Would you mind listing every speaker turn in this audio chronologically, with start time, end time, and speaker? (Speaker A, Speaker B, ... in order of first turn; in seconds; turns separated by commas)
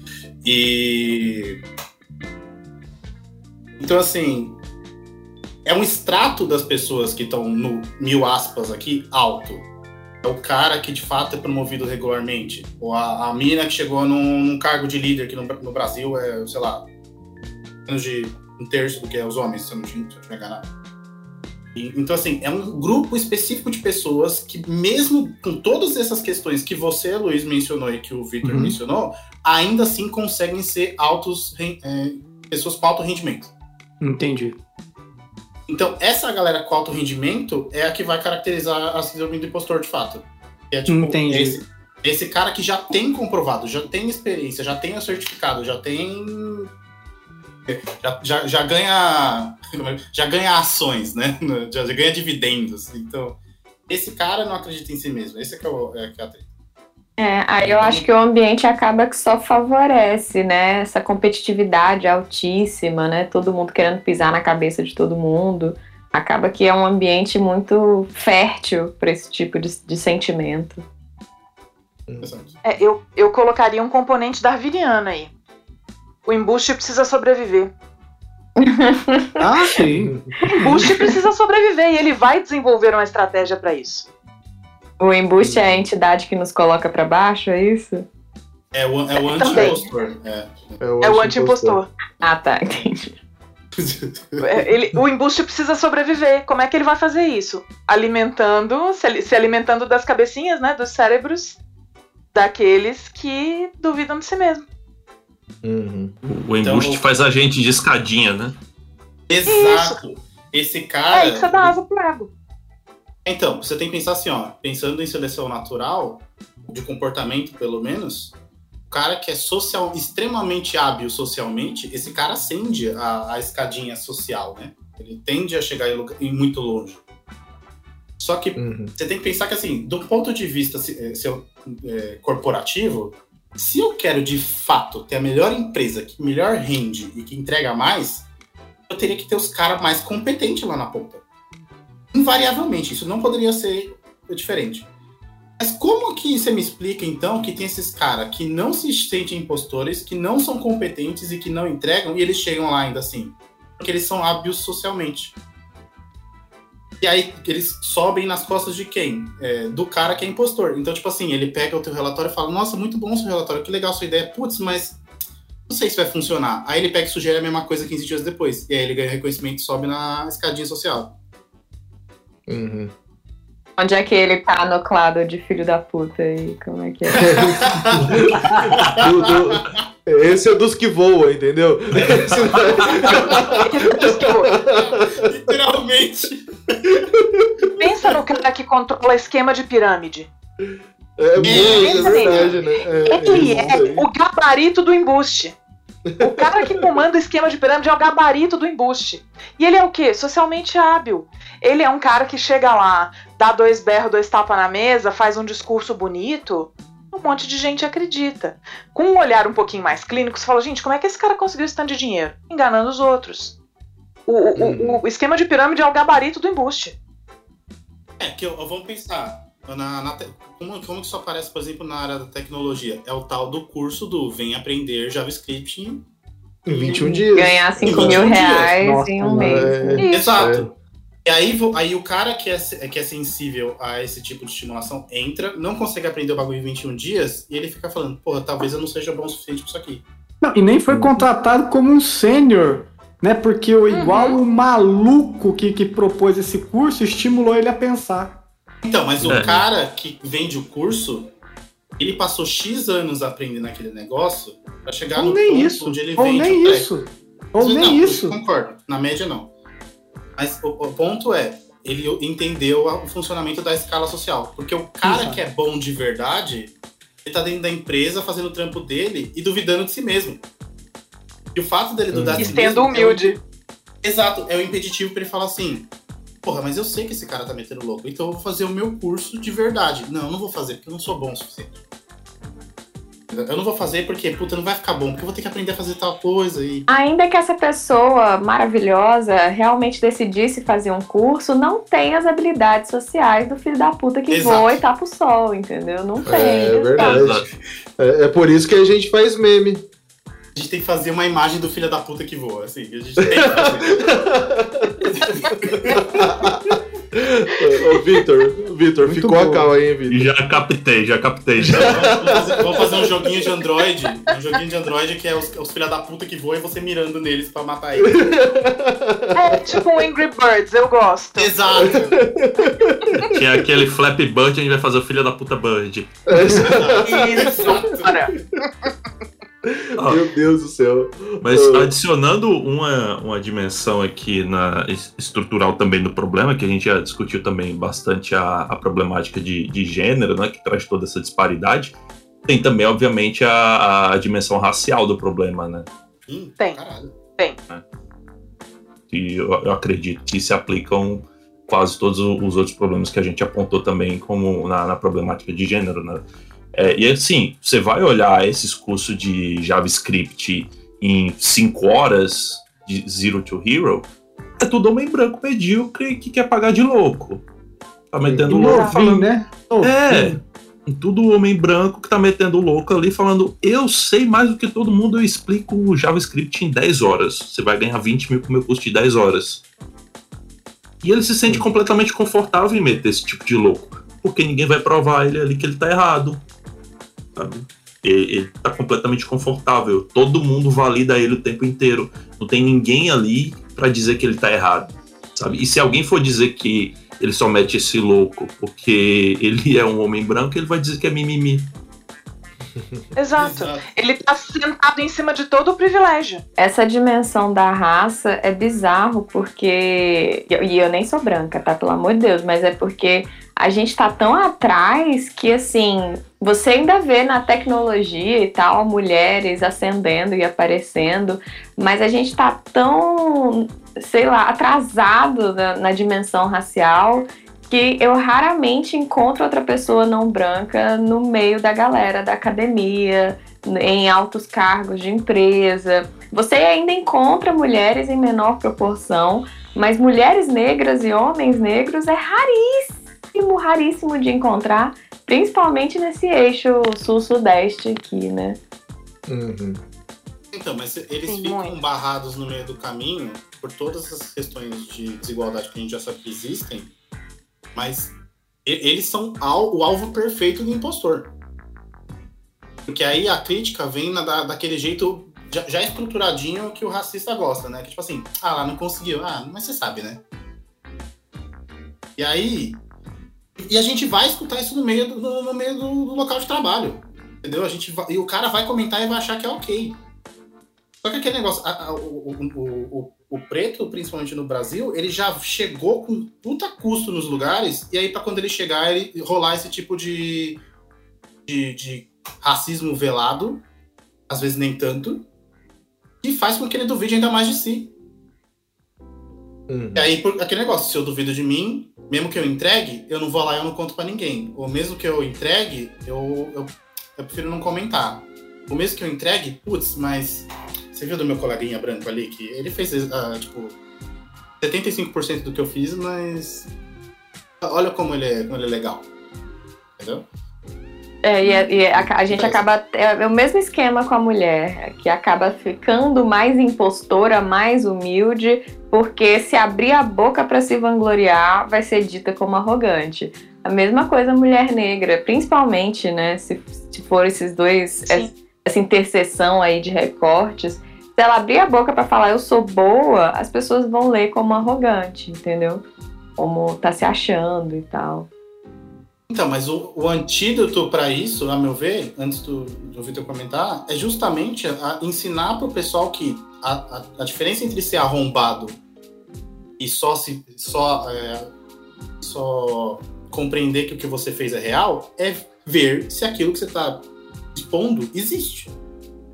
Speaker A: 0.4-1.6, Speaker A: 3.8-4.6, Speaker A: 5.6-9.7, Speaker A: 10.2-16.9, Speaker A: 17.9-20.7, Speaker A: 21.7-33.5, Speaker B: 28.4-28.8, Speaker B: 34.0-34.6, Speaker A: 35.7-46.7, Speaker B: 40.9-41.6, Speaker A: 47.7-56.5, Speaker C: 57.2-70.8, Speaker A: 57.6-58.1, Speaker A: 72.2-72.6, Speaker D: 72.6-75.3, Speaker D: 76.2-77.7, Speaker C: 78.6-79.8, Speaker B: 79.4-81.0, Speaker D: 80.6-84.0, Speaker C: 80.6-80.9, Speaker C: 85.0-88.0, Speaker E: 85.4-85.8, Speaker A: 88.7-90.8, Speaker D: 89.2-89.8, Speaker E: 90.8-91.8, Speaker D: 91.0-91.9, Speaker C: 92.2-93.1, Speaker A: 93.7-94.7, Speaker D: 94.4-101.6, Speaker D: 102.3-104.6, Speaker E: 105.6-106.2, Speaker F: 106.2-108.5, Speaker A: 106.6-107.0, Speaker A: 109.3-111.8, Speaker D: 109.5-110.0, Speaker D: 111.1-112.3, Speaker A: 113.2-118.3, Speaker A: 118.9-127.0, Speaker A: 128.2-138.2, Speaker E: 128.6-128.9, Speaker A: 138.9-141.2, Speaker A: 142.1-144.9, Speaker A: 145.6-155.3, Speaker A: 157.0-165.0, Speaker A: 165.7-171.1, Speaker E: 172.5-172.9, Speaker C: 173.8-177.6, Speaker A: 177.1-179.8, Speaker E: 177.2-185.1, Speaker A: 182.0-187.1, Speaker D: 183.0-184.6, Speaker E: 187.3-187.7, Speaker D: 187.8-190.3, Speaker E: 190.6-194.0, Speaker A: 191.4-192.6, Speaker D: 191.4-195.6, Speaker A: 193.2-193.5, Speaker E: 196.1-196.9, Speaker D: 196.2-213.5, Speaker D: 214.3-216.9, Speaker E: 214.6-215.0, Speaker A: 218.2-226.1, Speaker E: 226.7-228.4, Speaker A: 226.7-227.0, Speaker C: 226.9-230.0, Speaker A: 227.8-228.8, Speaker B: 228.8-229.7, Speaker E: 229.2-230.7, Speaker D: 230.0-230.6, Speaker A: 230.1-230.7, Speaker A: 231.2-240.0, Speaker B: 240.4-248.4, Speaker E: 240.9-241.2, Speaker D: 243.9-244.4, Speaker A: 248.8-251.3, Speaker E: 249.2-249.6, Speaker F: 249.3-249.6, Speaker A: 252.0-256.9, Speaker B: 255.2-258.4, Speaker A: 257.6-259.5, Speaker A: 260.4-266.7, Speaker B: 265.0-265.4, Speaker A: 267.2-270.4, Speaker A: 271.5-273.3, Speaker E: 272.1-272.5, Speaker D: 272.4-273.4, Speaker A: 274.0-275.9, Speaker A: 276.4-281.8, Speaker A: 283.3-286.9, Speaker C: 286.9-297.2, Speaker A: 294.3-294.8, Speaker E: 296.2-299.9, Speaker F: 297.0-297.5, Speaker A: 300.5-304.3, Speaker E: 303.3-305.1, Speaker A: 305.0-306.5, Speaker E: 306.2-310.3, Speaker B: 309.0-309.7, Speaker F: 310.1-312.1, Speaker E: 311.6-313.2, Speaker A: 311.7-318.4, Speaker E: 318.1-319.6, Speaker D: 319.3-321.6, Speaker A: 321.4-322.2, Speaker E: 321.8-323.3, Speaker F: 323.3-326.2, Speaker E: 326.3-327.0, Speaker A: 326.6-328.3, Speaker D: 327.0-328.3, Speaker E: 329.6-331.9, Speaker F: 330.0-330.2, Speaker F: 331.4-341.9, Speaker F: 342.4-345.9, Speaker A: 346.2-347.2, Speaker F: 349.1-364.1, Speaker F: 364.6-367.4, Speaker F: 368.1-369.2, Speaker E: 368.2-368.6, Speaker B: 368.5-370.4, Speaker D: 368.5-369.2, Speaker F: 369.8-370.4, Speaker F: 370.9-379.6, Speaker F: 381.0-386.4, Speaker F: 387.4-401.7, Speaker E: 402.7-403.0, Speaker D: 403.1-406.4, Speaker A: 403.4-403.9, Speaker C: 406.6-448.6, Speaker E: 449.3-449.8, Speaker A: 450.5-456.9, Speaker D: 451.3-451.8, Speaker A: 457.7-458.1, Speaker A: 458.6-461.3, Speaker A: 462.9-470.2, Speaker A: 472.2-472.8, Speaker A: 473.6-480.0, Speaker A: 481.0-490.6, Speaker A: 491.5-493.6, Speaker A: 494.3-495.2, Speaker A: 496.2-497.9, Speaker E: 499.7-500.1, Speaker A: 499.9-513.8, Speaker A: 514.6-516.7, Speaker A: 517.6-519.1, Speaker A: 520.0-520.2, Speaker C: 521.2-545.8, Speaker A: 521.8-522.6, Speaker C: 546.4-548.3, Speaker A: 549.3-558.8, Speaker A: 559.8-561.5, Speaker A: 562.2-568.7